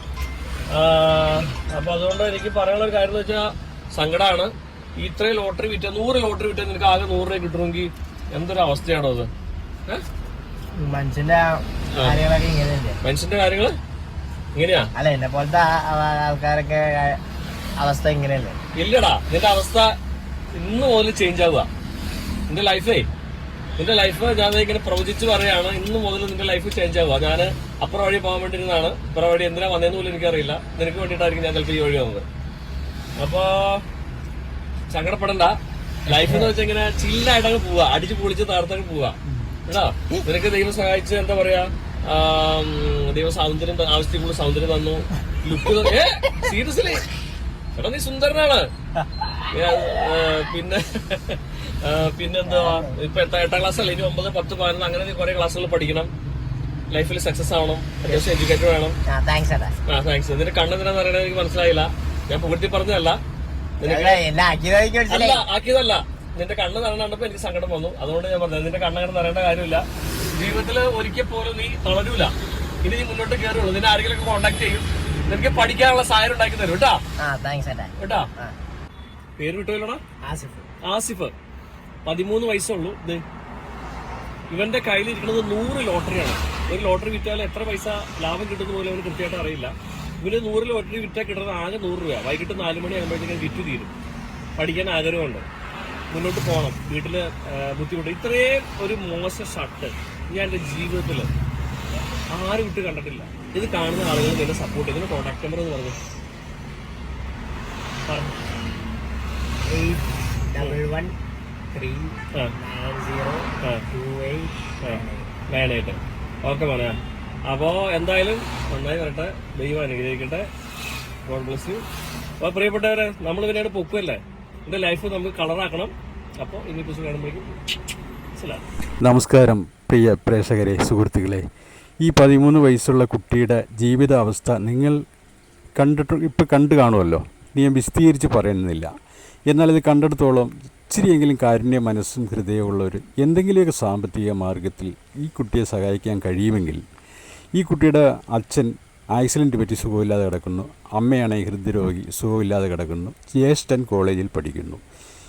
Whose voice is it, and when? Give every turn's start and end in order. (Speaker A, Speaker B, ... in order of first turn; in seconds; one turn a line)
Speaker A: 0.7-9.3
Speaker B: 10.7-13.0
Speaker A: 11.9-12.2
Speaker A: 13.0-13.8
Speaker A: 14.5-14.9
Speaker B: 14.9-17.2
Speaker B: 17.8-18.6
Speaker A: 18.7-19.9
Speaker A: 20.5-21.7
Speaker A: 22.5-23.1
Speaker A: 23.8-32.3
Speaker A: 33.2-33.8
Speaker A: 34.9-47.1
Speaker A: 47.8-48.7
Speaker A: 49.4-56.1
Speaker B: 52.4-53.0
Speaker A: 56.9-59.0
Speaker B: 58.0-58.3
Speaker B: 59.0-59.7
Speaker A: 59.9-63.2
Speaker A: 63.8-64.2
Speaker B: 63.9-65.4
Speaker A: 65.1-77.0
Speaker B: 77.2-78.5
Speaker A: 78.0-78.3
Speaker A: 79.4-80.0
Speaker B: 80.2-80.7
Speaker A: 80.8-81.3
Speaker A: 82.0-83.2
Speaker A: 84.5-93.9
Speaker A: 94.6-95.5
Speaker A: 96.1-101.3
Speaker A: 102.3-106.0
Speaker A: 108.0-108.3
Speaker B: 109.7-111.1
Speaker B: 111.7-115.3
Speaker A: 114.8-120.5
Speaker A: 121.2-121.8
Speaker A: 122.4-127.6
Speaker A: 128.3-128.6
Speaker C: 129.0-131.4
Speaker C: 132.0-135.0
Speaker C: 135.8-138.9
Speaker C: 139.5-146.8
Speaker C: 147.5-154.8